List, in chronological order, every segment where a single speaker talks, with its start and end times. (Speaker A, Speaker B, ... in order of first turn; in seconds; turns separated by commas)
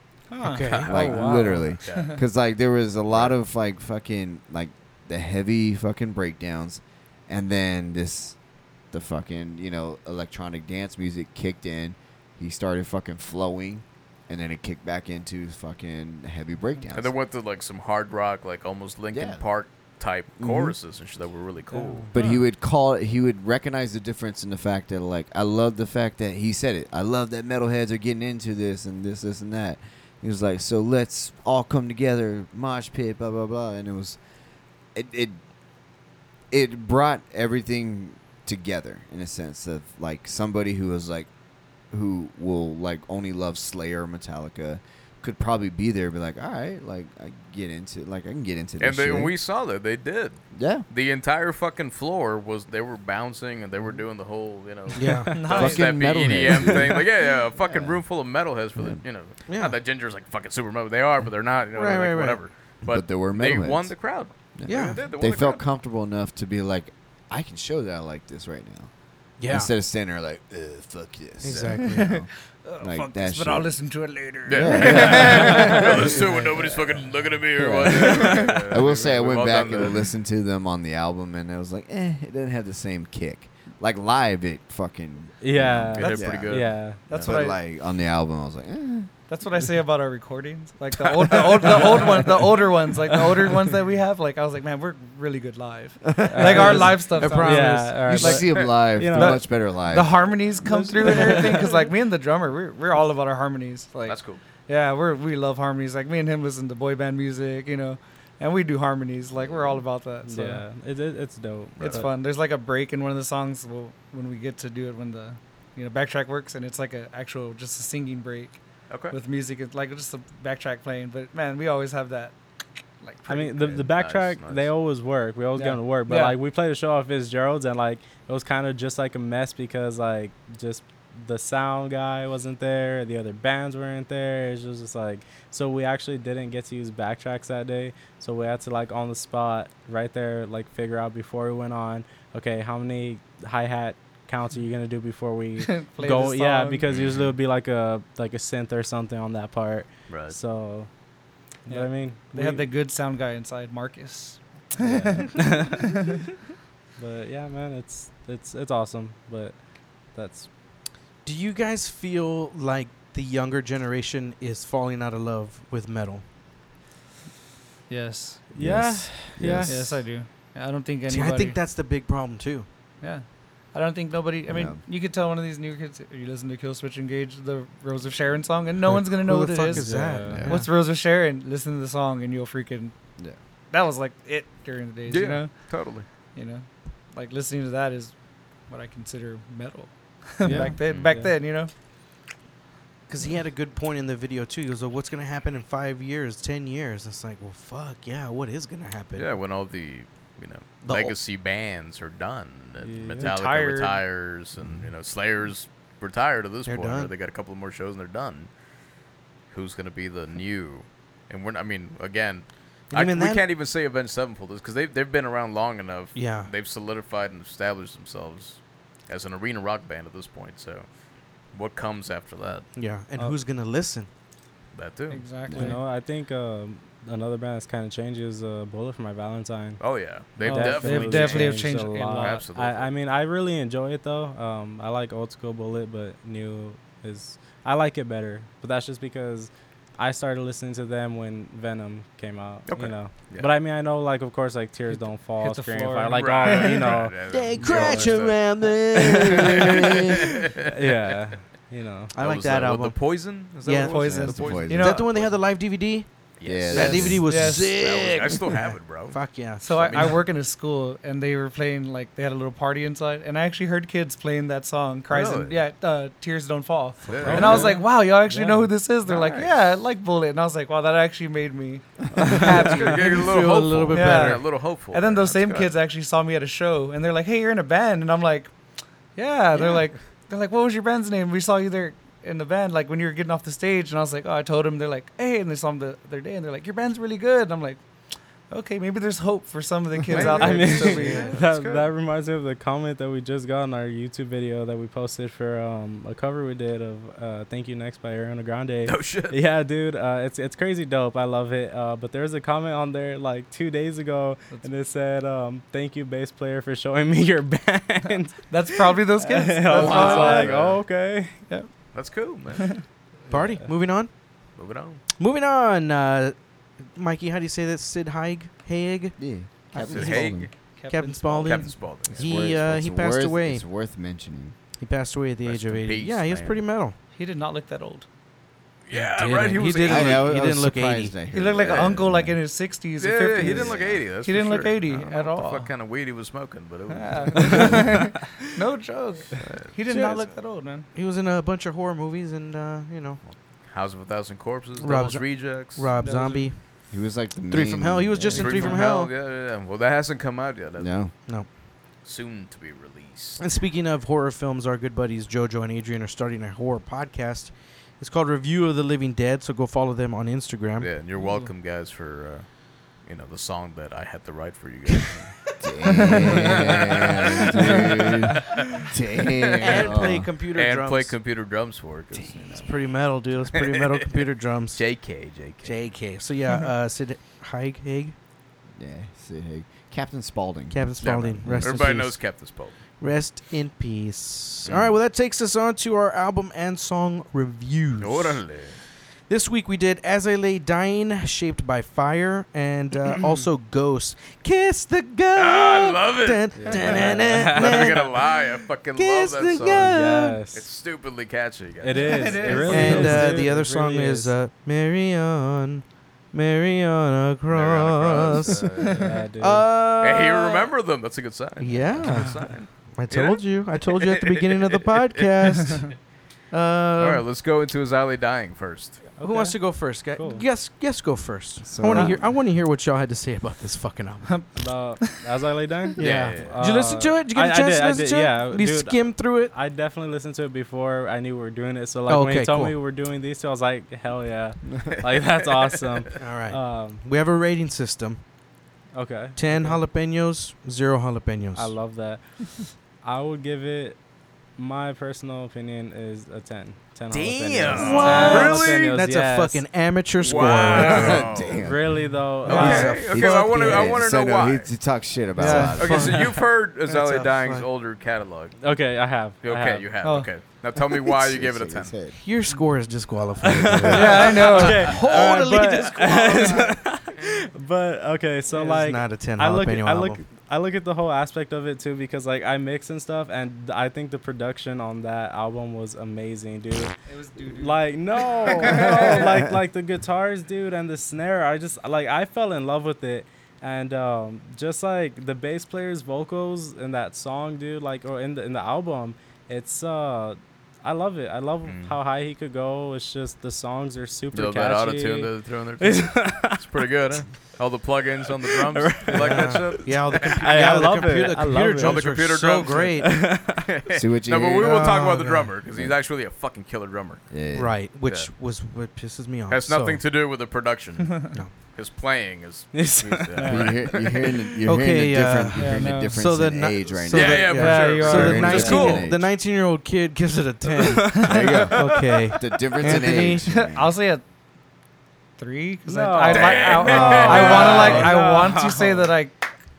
Speaker A: 0.3-0.8, Speaker B: 0.4-1.0, Speaker C: 0.6-2.2, Speaker D: 0.9-8.4, Speaker E: 0.9-1.7, Speaker A: 1.9-2.2, Speaker C: 3.1-3.4, Speaker D: 8.9-17.1, Speaker C: 16.9-22.1, Speaker D: 19.1-19.4, Speaker D: 20.4-20.8, Speaker D: 22.1-34.2, Speaker A: 22.1-22.4, Speaker D: 35.0-35.4, Speaker D: 36.5-41.3, Speaker D: 41.9-49.4, Speaker C: 48.8-65.6, Speaker D: 50.5-50.9, Speaker B: 54.9-55.5, Speaker A: 55.3-56.0, Speaker D: 55.5-58.0, Speaker D: 58.8-59.0, Speaker B: 59.5-59.8, Speaker B: 61.7-62.4, Speaker D: 62.9-64.0, Speaker D: 64.5-68.9, Speaker B: 64.7-65.1, Speaker B: 69.4-69.7, Speaker D: 69.5-73.8, Speaker B: 71.4-72.1, Speaker A: 71.8-76.7, Speaker C: 74.5-80.0, Speaker D: 74.5-76.4, Speaker D: 77.5-89.1, Speaker E: 85.4-87.0, Speaker C: 86.0-87.3, Speaker A: 87.1-87.6, Speaker A: 89.3-110.7, Speaker D: 96.0-97.4, Speaker E: 96.3-99.4, Speaker B: 96.5-98.1, Speaker D: 98.0-100.3, Speaker E: 100.7-101.8, Speaker D: 100.9-101.5, Speaker C: 104.1-104.4, Speaker E: 110.2-112.1, Speaker C: 111.8-112.1, Speaker A: 111.8-118.6, Speaker C: 118.9-119.2, Speaker A: 119.1-122.3, Speaker A: 123.0-123.8, Speaker E: 123.3-150.9, Speaker C: 123.7-124.7, Speaker A: 125.6-126.4, Speaker A: 145.6-146.8, Speaker C: 146.9-147.3, Speaker C: 150.1-150.4, Speaker E: 151.7-152.7, Speaker A: 151.7-156.2, Speaker E: 154.8-156.0, Speaker E: 157.0-159.6, Speaker E: 160.2-160.5, Speaker B: 161.2-166.2, Speaker A: 167.9-168.5, Speaker E: 168.5-170.0, Speaker D: 168.6-170.0, Speaker A: 169.7-171.6, Speaker B: 171.1-172.7, Speaker A: 173.0-182.9, Speaker D: 174.5-174.8, Speaker B: 178.9-180.7, Speaker E: 179.7-180.5, Speaker D: 180.3-180.6, Speaker A: 183.7-185.5, Speaker C: 185.1-186.1, Speaker A: 186.3-188.1, Speaker A: 188.7-191.7, Speaker E: 190.4-191.3, Speaker C: 190.8-191.2, Speaker B: 193.1-199.3, Speaker C: 199.2-208.5, Speaker B: 200.8-201.2, Speaker E: 202.8-203.3, Speaker A: 203.2-204.0, Speaker B: 206.7-207.1, Speaker C: 209.5-220.9, Speaker B: 212.9-213.4, Speaker B: 216.2-216.5, Speaker C: 221.5-222.7, Speaker B: 222.7-224.1, Speaker C: 224.7-225.2, Speaker A: 225.1-225.8, Speaker D: 225.5-225.8, Speaker E: 225.5-229.8, Speaker C: 229.8-231.7, Speaker E: 230.4-248.2, Speaker A: 230.4-232.4, Speaker C: 232.2-232.9, Speaker C: 242.7-243.5, Speaker A: 244.9-247.1, Speaker C: 246.1-248.5, Speaker B: 247.2-250.2, Speaker E: 249.0-249.5, Speaker C: 249.3-250.7, Speaker D: 249.6-249.9, Speaker E: 250.6-252.1, Speaker B: 252.1-253.1, Speaker C: 252.2-255.3, Speaker B: 253.6-254.2, Speaker A: 253.8-255.1, Speaker D: 254.0-255.0, Speaker B: 254.7-256.1, Speaker C: 256.4-259.2, Speaker D: 256.4-257.3, Speaker B: 256.6-260.2, Speaker A: 257.3-257.8, Speaker A: 259.6-273.4, Speaker C: 259.8-260.1, Speaker C: 265.1-265.6, Speaker C: 267.1-267.8, Speaker B: 267.2-267.5, Speaker E: 267.2-268.7, Speaker C: 269.1-269.6, Speaker E: 272.1-272.5, Speaker B: 272.4-274.4, Speaker C: 272.4-275.8, Speaker A: 273.9-278.5, Speaker A: 279.1-287.8, Speaker A: 288.5-291.3, Speaker C: 290.1-291.9, Speaker E: 290.3-311.4, Speaker B: 290.9-291.3, Speaker C: 298.9-299.4, Speaker A: 308.5-310.5, Speaker C: 309.7-310.8, Speaker C: 311.9-312.8, Speaker B: 313.3-314.1, Speaker E: 313.4-313.7, Speaker C: 314.6-315.0, Speaker B: 315.2-319.2, Speaker D: 319.2-320.5, Speaker A: 319.7-321.8, Speaker B: 319.8-320.4, Speaker C: 319.9-320.6, Speaker B: 320.9-323.6, Speaker C: 321.4-322.5, Speaker D: 322.1-324.6, Speaker B: 324.8-327.0, Speaker C: 325.4-326.6, Speaker A: 327.1-328.1, Speaker C: 328.9-330.4, Speaker B: 328.9-331.2, Speaker D: 329.8-332.4, Speaker A: 331.3-335.7, Speaker C: 331.6-331.9, Speaker C: 333.0-337.9, Speaker D: 333.4-334.1, Speaker A: 336.9-340.9, Speaker C: 339.4-339.8, Speaker B: 339.9-340.3, Speaker B: 340.9-343.2, Speaker C: 343.3-345.9, Speaker B: 344.8-346.6, Speaker A: 346.0-346.5, Speaker D: 346.9-348.8, Speaker B: 347.5-349.1, Speaker C: 348.3-351.0, Speaker A: 348.4-348.8, Speaker D: 350.8-351.1, Speaker C: 352.0-353.4, Speaker B: 353.4-361.0, Speaker C: 360.8-365.4, Speaker A: 361.2-361.5, Speaker D: 365.6-370.3, Speaker C: 366.0-367.9, Speaker C: 368.5-368.9, Speaker C: 369.4-372.7, Speaker B: 369.6-371.2, Speaker D: 372.1-372.7, Speaker B: 372.5-375.0, Speaker C: 373.5-374.1, Speaker C: 374.7-375.9, Speaker B: 375.6-378.1, Speaker D: 378.8-380.9, Speaker B: 380.7-382.4, Speaker C: 381.0-382.8, Speaker D: 381.4-381.9, Speaker B: 383.0-388.4, Speaker C: 388.0-388.8, Speaker B: 389.3-398.2, Speaker C: 395.4-399.9, Speaker E: 396.6-398.1, Speaker B: 399.0-400.4, Speaker E: 399.6-400.7, Speaker C: 400.5-403.2, Speaker E: 401.8-404.3, Speaker A: 401.9-403.5, Speaker B: 402.6-408.8, Speaker C: 407.5-409.1, Speaker E: 408.8-409.7, Speaker A: 408.8-409.2, Speaker B: 409.4-410.7, Speaker C: 410.0-416.0, Speaker B: 411.6-415.9, Speaker B: 416.5-417.2, Speaker C: 417.0-419.1, Speaker E: 419.2-420.4, Speaker B: 419.2-424.3, Speaker D: 421.6-422.3, Speaker A: 424.3-425.2, Speaker E: 424.6-437.0, Speaker B: 426.0-429.6, Speaker C: 426.0-426.6, Speaker B: 432.1-432.8, Speaker B: 436.2-438.2, Speaker E: 438.9-439.8, Speaker B: 439.4-441.8, Speaker E: 441.6-442.5, Speaker E: 443.0-444.0, Speaker E: 444.6-449.7, Speaker C: 447.1-448.9, Speaker B: 447.7-451.3, Speaker C: 450.2-451.6, Speaker D: 450.6-452.1, Speaker E: 451.6-452.9, Speaker A: 452.5-453.0, Speaker B: 452.5-454.0, Speaker C: 452.5-454.7, Speaker D: 453.0-456.1, Speaker B: 455.4-457.7, Speaker A: 455.4-455.9, Speaker C: 455.8-458.7, Speaker E: 458.6-459.9, Speaker C: 459.4-462.0, Speaker A: 460.0-460.3, Speaker D: 460.9-462.2, Speaker B: 462.1-466.8, Speaker E: 463.4-477.0, Speaker A: 463.9-465.0, Speaker B: 468.5-470.2, Speaker A: 477.1-479.3, Speaker E: 477.5-496.7, Speaker C: 491.6-491.9, Speaker C: 494.3-500.3, Speaker E: 498.4-502.0, Speaker B: 499.1-503.3, Speaker C: 501.8-507.4, Speaker E: 503.0-503.6, Speaker D: 503.9-505.1, Speaker B: 504.6-505.5, Speaker D: 505.7-506.0, Speaker D: 507.3-507.8, Speaker B: 507.5-510.1, Speaker C: 508.1-508.3, Speaker C: 509.5-514.3, Speaker E: 512.7-513.5, Speaker A: 513.4-513.7, Speaker D: 513.4-519.2, Speaker B: 514.6-523.5, Speaker A: 515.6-516.2, Speaker C: 517.1-519.1, Speaker A: 517.5-518.9, Speaker E: 520.8-521.3, Speaker D: 521.2-524.0, Speaker A: 522.9-524.2, Speaker A: 525.4-529.4, Speaker E: 525.9-529.1, Speaker C: 526.3-528.2, Speaker B: 527.1-528.0